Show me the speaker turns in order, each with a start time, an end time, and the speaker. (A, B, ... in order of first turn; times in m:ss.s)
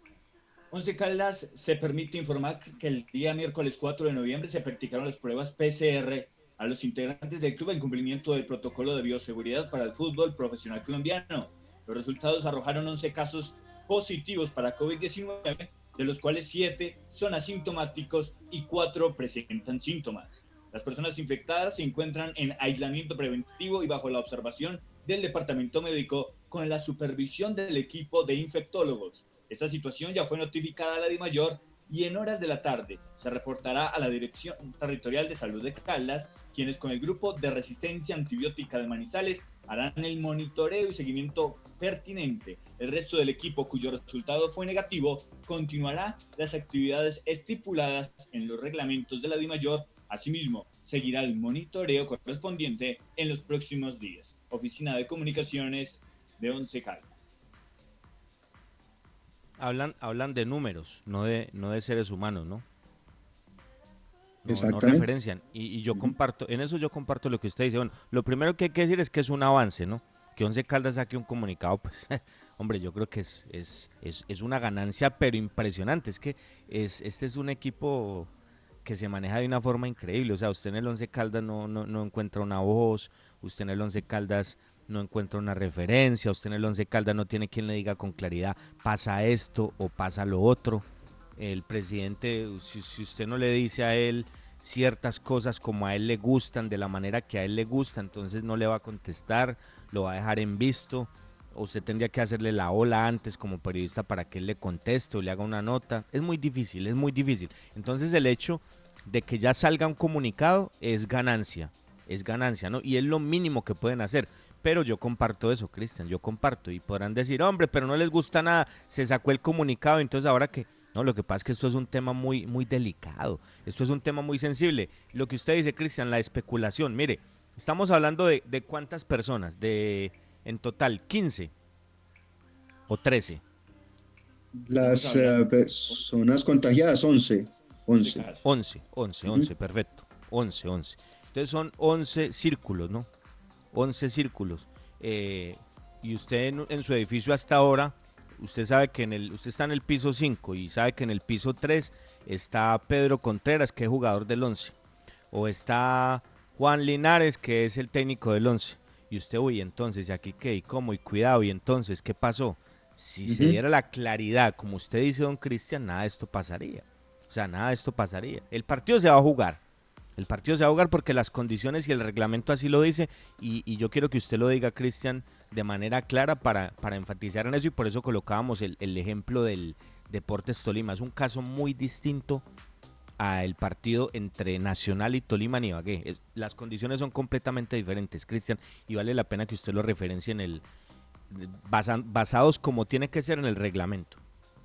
0:00.7-0:57.3 A
0:59.6-1:02.6 B
1:04.4-1:18.3 B
1:04.5-1:05.1 C
1:18.8-1:30.8 B
1:31.4-2:11.5 B
2:12.9-2:13.4 B
2:14.6-2:18.3 C
2:14.8-2:15.5 A
2:18.0-2:18.4 A
2:18.4-2:23.1 B
2:23.7-2:34.7 B
2:35.3-2:49.6 B
2:43.2-2:43.6 C
2:50.2-3:02.4 B
3:03.2-3:10.6 B
3:11.3-3:14.2 B